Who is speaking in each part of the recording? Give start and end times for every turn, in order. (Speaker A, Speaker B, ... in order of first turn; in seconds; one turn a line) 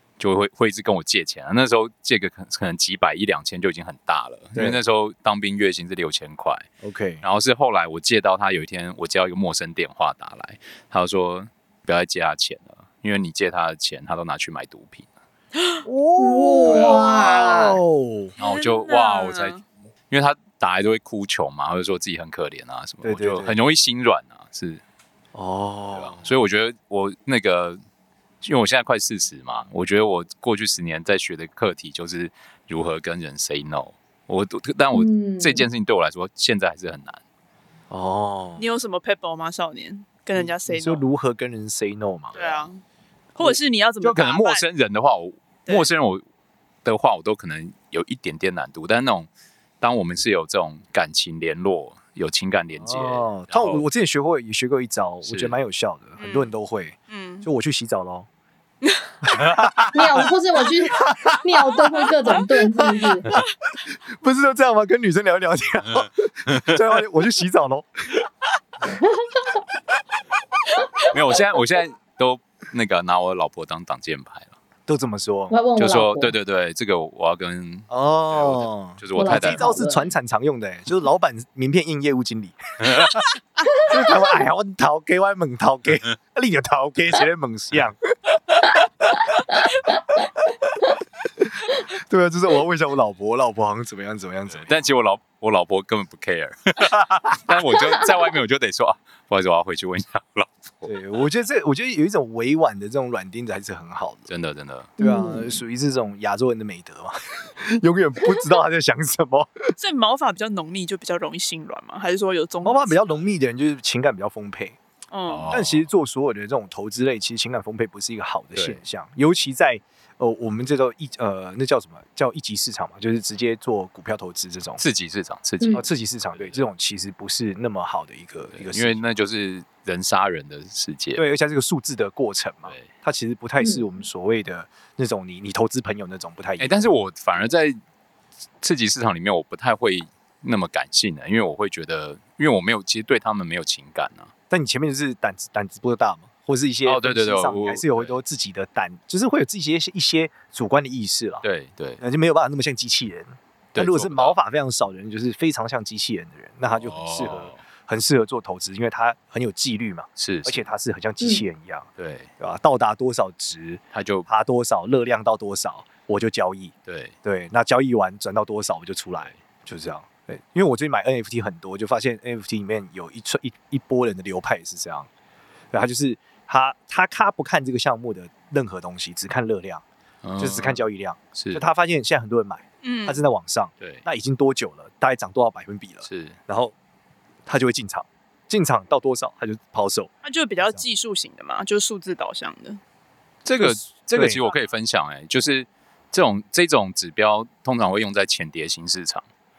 Speaker A: 0.2-6.7
Speaker B: 4.5-4.8
Speaker B: 6.8-7.2
Speaker A: 7.2-15.1
Speaker C: 15.6-15.8
Speaker B: 15.8-18.3
Speaker D: 16.2-17.8
Speaker C: 16.7-17.7
Speaker C: 18.4-19.6
Speaker A: 18.4-19.6
Speaker A: 20.1-24.8
Speaker B: 23.0-23.6
Speaker B: 25.3-26.3
Speaker A: 25.9-27.8
Speaker A: 28.4-37.2
Speaker D: 34.9-35.7
Speaker B: 37.9-38.6
Speaker C: 38.6-41.0
Speaker B: 40.4-42.7
Speaker C: 42.3-42.8
Speaker C: 43.4-44.6
Speaker A: 44.0-46.2
Speaker A: 46.9-49.3
Speaker A: 49.8-53.8
Speaker B: 52.8-58.3
Speaker A: 55.2-55.5
Speaker C: 56.2-56.5
Speaker C: 57.1-57.5
Speaker C: 58.8-59.1
Speaker B: 59.2-60.0
Speaker D: 59.8-63.3
Speaker B: 61.0-63.4
Speaker B: 63.9-67.9
Speaker D: 68.9-69.6
Speaker A: 71.1-74.5
Speaker B: 74.9-75.5
Speaker D: 75.5-76.4
Speaker A: 75.8-79.8
Speaker B: 77.9-88.0
Speaker D: 79.2-80.1
Speaker B: 91.2-94.7
Speaker A: 94.5-100.9
Speaker B: 100.8-104.3
Speaker A: 104.3-104.9
Speaker B: 105.0-109.8
Speaker D: 105.0-105.6
Speaker C: 109.8-113.3
Speaker B: 112.6-114.8
Speaker C: 115.1-115.5
Speaker A: 115.3-115.9
Speaker B: 115.5-124.8
Speaker A: 118.5-118.8
Speaker A: 124.8-126.6
Speaker B: 125.7-129.0
Speaker A: 128.5-131.2
Speaker B: 131.2-136.7
Speaker D: 133.6-133.9
Speaker A: 136.6-137.8
Speaker A: 138.6-144.3
Speaker B: 144.5-151.4
Speaker A: 146.8-148.1
Speaker A: 151.4-152.0
Speaker B: 152.0-175.1
Speaker A: 153.8-154.4
Speaker A: 156.8-157.6
Speaker A: 160.2-160.6
Speaker A: 162.0-162.3
Speaker A: 163.9-164.3
Speaker A: 166.9-167.1
Speaker B: 175.7-179.8
Speaker A: 180.2-180.8
Speaker B: 180.4-186.7
Speaker A: 181.3-181.6
Speaker C: 182.8-183.2
Speaker A: 186.1-186.4
Speaker B: 187.5-190.1
Speaker C: 190.2-192.8
Speaker A: 193.4-199.2
Speaker B: 193.6-194.5